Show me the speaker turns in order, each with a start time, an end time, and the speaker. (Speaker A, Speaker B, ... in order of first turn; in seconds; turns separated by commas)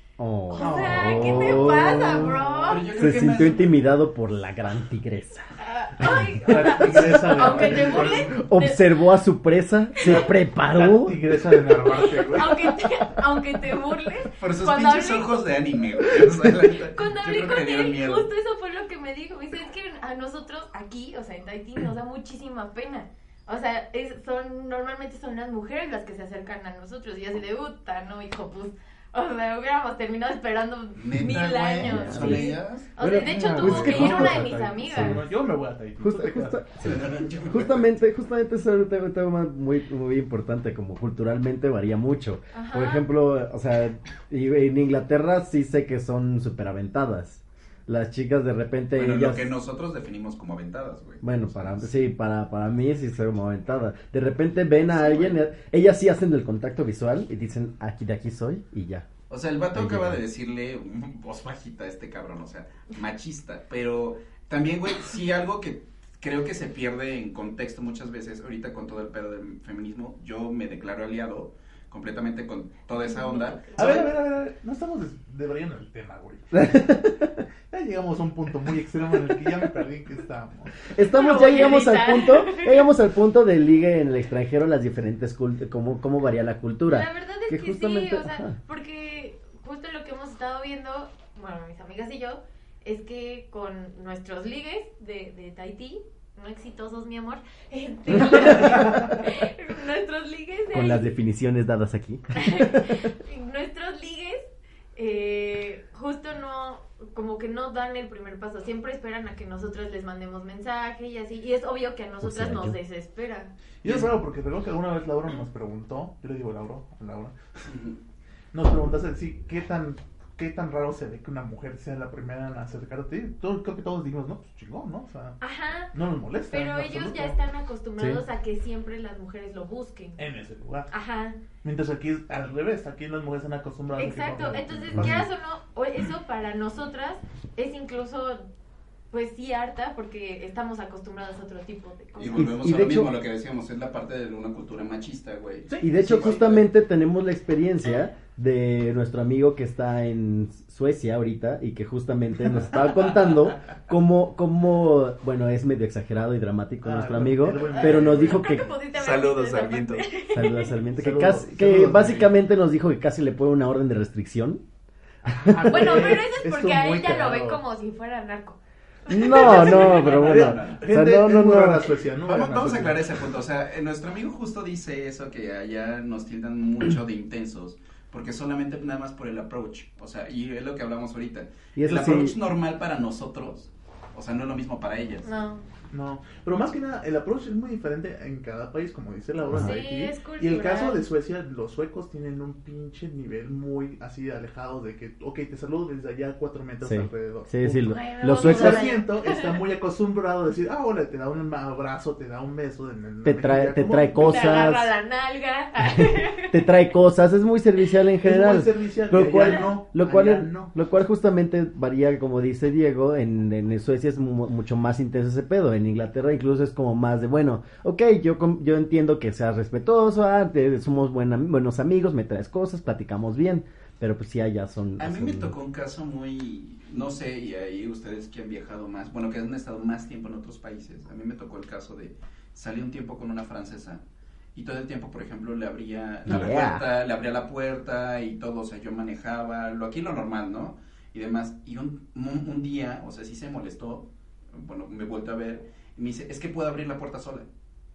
Speaker A: 0.2-2.4, Speaker B: 0.5-2.9, Speaker C: 0.6-2.6, Speaker D: 2.6-3.7, Speaker A: 2.9-5.5, Speaker B: 5.6-8.8, Speaker C: 6.4-8.4, Speaker A: 6.9-11.2, Speaker B: 10.0-10.2, Speaker C: 10.0-12.7, Speaker B: 11.8-15.3, Speaker D: 14.4-18.3, Speaker B: 16.8-35.2, Speaker D: 31.0-32.9, Speaker A: 31.2-35.2, Speaker C: 33.2-36.6, Speaker D: 33.6-34.1, Speaker A: 36.0-49.5, Speaker D: 36.8-37.9, Speaker B: 42.5-43.1, Speaker D: 48.9-51.8, Speaker A: 51.2-59.1, Speaker D: 54.9-55.4, Speaker D: 59.3-74.1, Speaker A: 59.7-60.2, Speaker B: 72.9-74.1, Speaker C: 73.8-76.7, Speaker A: 76.5-77.4, Speaker C: 77.7-80.8, Speaker A: 80.9-88.5, Speaker B: 81.0-82.9, Speaker B: 86.9-101.1, Speaker A: 100.7-103.1, Speaker B: 102.3-113.5, Speaker A: 112.2-112.8, Speaker C: 113.8-117.3, Speaker D: 113.8-114.2, Speaker D: 117.7-118.0, Speaker C: 118.5-125.4, Speaker B: 125.4-125.9, Speaker C: 125.9-127.4, Speaker B: 126.5-130.2, Speaker C: 130.2-130.9, Speaker B: 130.9-131.4, Speaker C: 131.6-135.2, Speaker B: 134.0-138.5, Speaker A: 134.9-135.2, Speaker B: 139.1-142.5, Speaker D: 142.2-146.6, Speaker A: 142.3-143.1, Speaker C: 145.7-146.4, Speaker A: 145.8-158.7, Speaker C: 156.8-158.4, Speaker B: 157.7-160.7, Speaker D: 158.9-160.1, Speaker A: 160.3-164.6, Speaker C: 161.0-162.3, Speaker C: 165.2-167.6, Speaker A: 165.3-166.2, Speaker B: 165.7-169.7, Speaker A: 169.1-171.9, Speaker D: 169.3-170.8, Speaker C: 169.3-173.1, Speaker D: 172.2-185.3, Speaker A: 181.8-182.3, Speaker B: 185.2-185.7, Speaker C: 185.9-204.6, Speaker A: 189.5-189.8, Speaker B: 189.5-191.0, Speaker A: 196.8-198.9, Speaker B: 197.9-199.6, Speaker A: 203.2-204.9, Speaker B: 204.2-206.6, Speaker A: 205.9-225.5, Speaker C: 208.2-210.7, Speaker D: 225.0-234.0, Speaker D: 234.5-247.5, Speaker A: 236.2-236.8